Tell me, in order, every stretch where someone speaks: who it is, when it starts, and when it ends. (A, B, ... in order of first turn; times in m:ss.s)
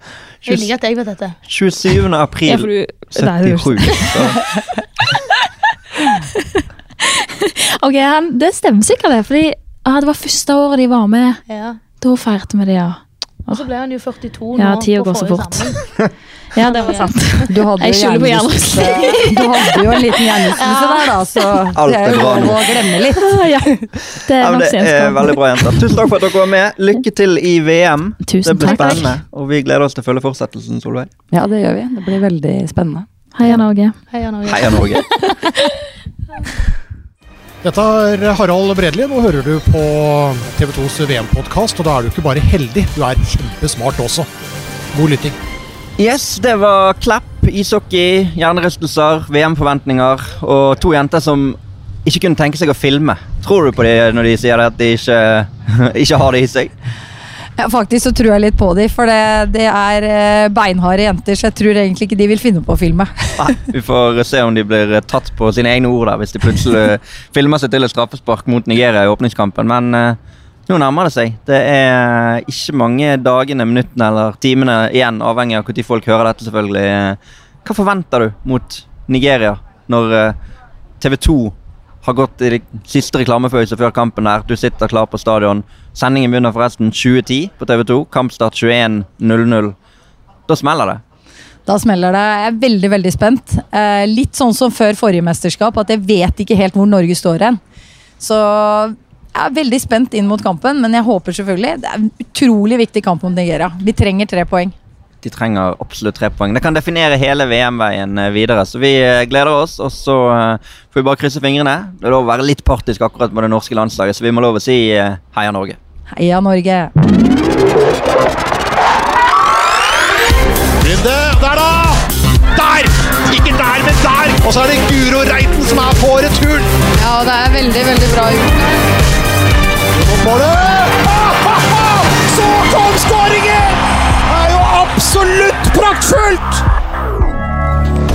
0:00.4-0:00.7 A
0:00.4-0:01.4 B
0:01.5-0:04.5 A
0:02.5-0:04.4 C
0:07.4-0:11.4 C
0:11.5-0:11.8 B
0:12.0-0:13.7 C
0:13.5-0:16.0 B
0:14.6-0:15.9 C
0:16.5-0:20.1 C
0:16.6-0:17.4 B
0:17.5-0:23.8 D
0:20.6-0:21.1 B
0:21.8-0:22.8 A
0:23.1-0:25.8 C
0:24.4-0:31.1 A
0:28.2-0:29.2 C
0:31.3-0:33.0 D
0:33.3-0:34.0 C
0:33.4-0:35.5 B
0:34.4-0:35.1 A
0:37.6-0:44.3 E
0:44.9-0:45.4 E
0:46.0-0:56.7 A
0:57.6-1:03.5 D
1:03.4-1:20.4 A
1:21.0-1:29.8 A
1:30.5-1:31.0 A
1:31.6-1:37.6 D
1:38.2-1:44.7 D
1:45.2-1:55.8 A
1:56.1-1:56.9 D
2:00.8-2:02.0 E
2:02.5-2:06.7 E
2:07.0-2:08.8 D
2:09.9-2:16.6 E